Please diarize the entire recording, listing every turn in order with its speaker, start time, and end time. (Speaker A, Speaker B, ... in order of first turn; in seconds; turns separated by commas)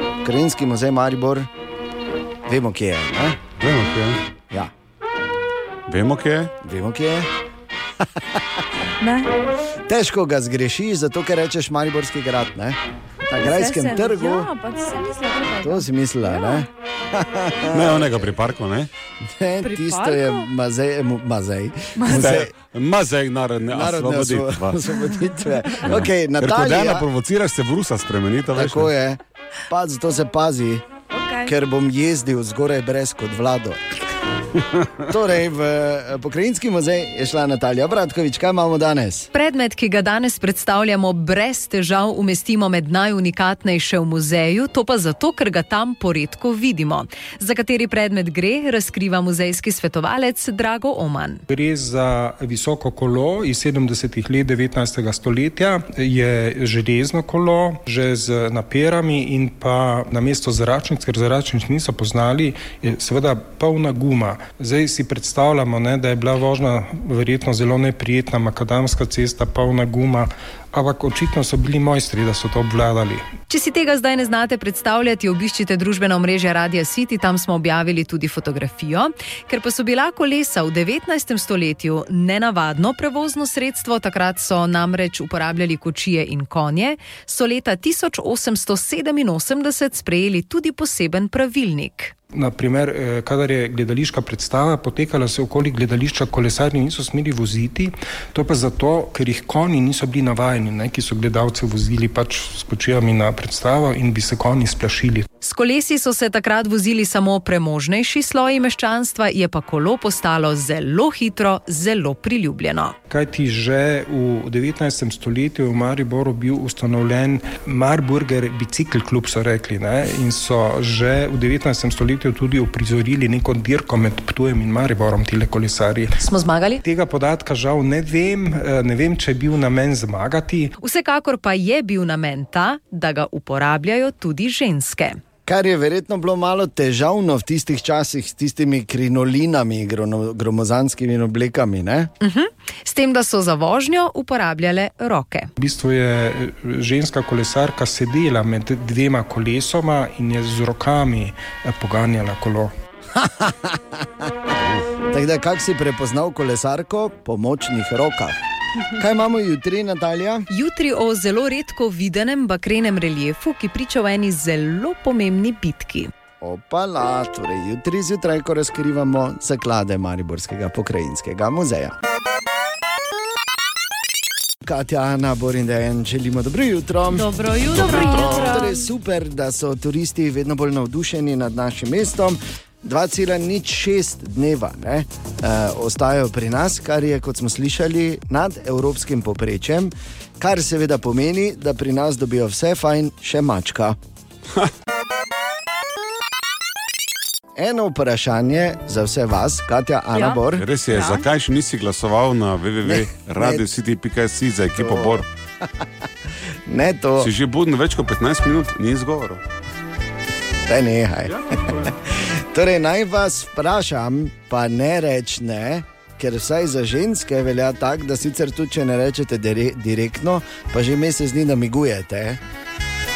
Speaker A: 0.2-1.5, Speaker A: 2.5-3.4, Speaker B: 3.6-4.2, Speaker B: 5.9-6.5, Speaker A: 6.6-7.3, Speaker A: 8.0-8.6, Speaker C: 9.0-9.3, Speaker A: 9.9-14.5, Speaker C: 13.4-16.7, Speaker A: 15.6-18.4, Speaker B: 17.7-18.9, Speaker A: 19.2-22.5, Speaker C: 19.6-20.5, Speaker C: 22.0-22.3, Speaker B: 22.1-24.9, Speaker A: 23.7-27.1, Speaker B: 25.8-28.9, Speaker A: 28.5-30.9, Speaker C: 31.1-31.5, Speaker A: 31.4-33.8, Speaker B: 34.6-35.0, Speaker A: 35.1-39.3, Speaker D: 39.3-51.4, Speaker E: 51.5-73.3, Speaker D: 73.5-92.2, Speaker E: 92.3-105.3, Speaker D: 105.4-113.0, Speaker E: 113.1-126.2, Speaker D: 126.2-126.8, Speaker E: 126.8-130.7, Speaker D: 130.8-135.2, Speaker A: 135.5-142.1, Speaker D: 142.2-145.5, Speaker E: 145.6-152.7, Speaker A: 153.1-154.3, Speaker A: 155.1-158.4, Speaker A: 158.9-160.5, Speaker D: 160.5-166.1, Speaker A: 166.4-172.0, Speaker A: 174.6-194.0, Speaker C: 177.1-178.9, Speaker B: 177.7-178.6, Speaker A: 197.6-200.7, Speaker C: 200.1-201.2, Speaker B: 200.6-205.2, Speaker A: 202.8-203.6, Speaker A: 204.8-205.7, Speaker A: 206.7-207.3, Speaker B: 207.2-209.4, Speaker A: 210.7-222.4, Speaker B: 211.6-211.9